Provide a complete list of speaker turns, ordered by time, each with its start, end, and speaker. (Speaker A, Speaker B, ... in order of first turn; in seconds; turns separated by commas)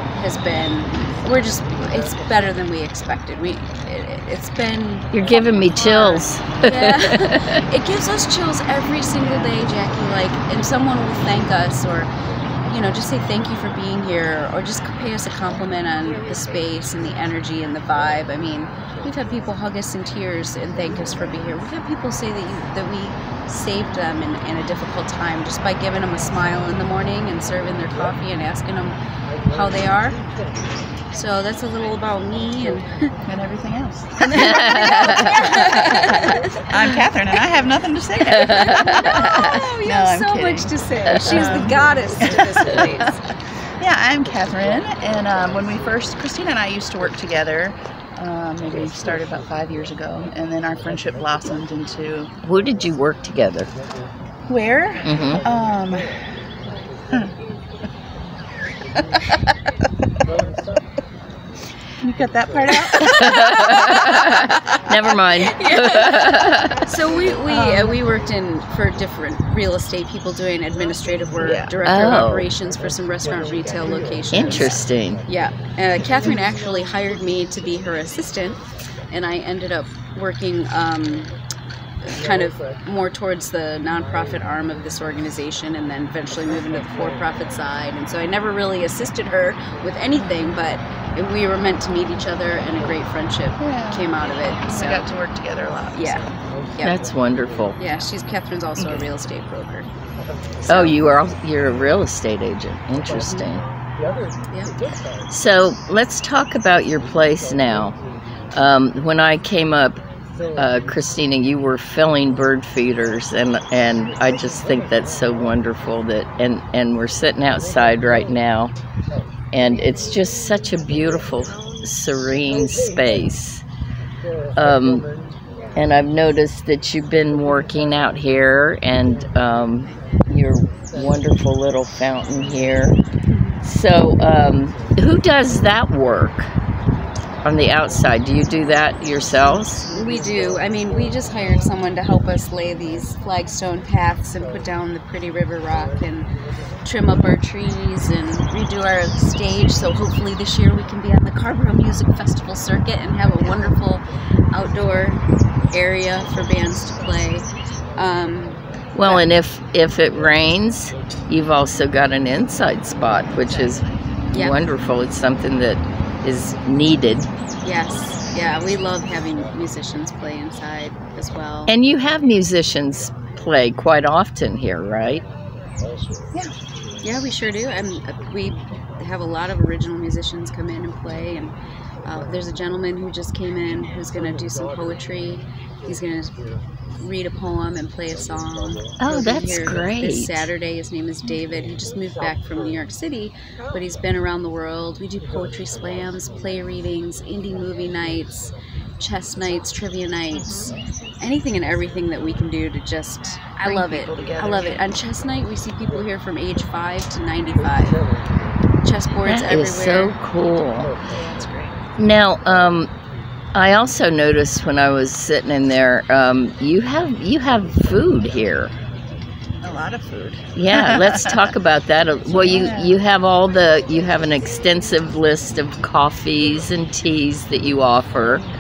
Speaker A: 0.2-5.1, Speaker B: 5.1-7.6, Speaker A: 5.8-12.1, Speaker A: 12.7-29.0, Speaker A: 29.5-30.2, Speaker A: 31.1-32.9, Speaker C: 33.3-35.8, Speaker A: 34.3-36.5, Speaker B: 34.4-35.2, Speaker C: 36.7-42.8, Speaker B: 38.4-39.4, Speaker A: 38.4-43.2, Speaker C: 43.8-52.3, Speaker B: 52.4-53.7, Speaker C: 54.5-56.2, Speaker B: 55.1-55.4, Speaker C: 62.0-63.8, Speaker B: 63.1-66.9, Speaker A: 65.5-81.3, Speaker C: 67.5-68.0, Speaker C: 71.4-71.7, Speaker B: 71.8-72.5, Speaker B: 74.3-75.2, Speaker A: 82.0-95.1, Speaker C: 93.6-96.3, Speaker A: 95.9-96.3, Speaker B: 96.8-97.8, Speaker A: 97.8-99.9, Speaker C: 98.8-99.1, Speaker A: 100.7-101.0, Speaker B: 100.7-103.6, Speaker A: 103.2-103.5, Speaker A: 104.5-104.8, Speaker B: 105.3-108.0, Speaker B: 108.5-110.0, Speaker B: 110.6-118.7, Speaker B: 119.5-123.6, Speaker B: 124.6-125.1, Speaker B: 125.8-133.0, Speaker A: 133.3-133.6, Speaker B: 133.6-136.5, Speaker B: 137.4-139.9, Speaker A: 139.9-146.3, Speaker A: 146.8-159.3, Speaker B: 158.9-163.8, Speaker C: 163.5-163.8, Speaker A: 164.3-164.6, Speaker B: 164.3-167.3, Speaker A: 167.6-171.7, Speaker B: 171.7-175.2, Speaker A: 177.0-181.5, Speaker A: 182.1-186.3, Speaker A: 187.0-208.0, Speaker B: 189.0-190.5, Speaker C: 203.6-204.8, Speaker A: 208.8-210.1, Speaker B: 209.3-210.9, Speaker C: 211.1-211.8, Speaker B: 212.0-212.9, Speaker B: 213.6-218.7, Speaker C: 219.6-221.5, Speaker B: 220.6-228.4, Speaker C: 222.3-223.0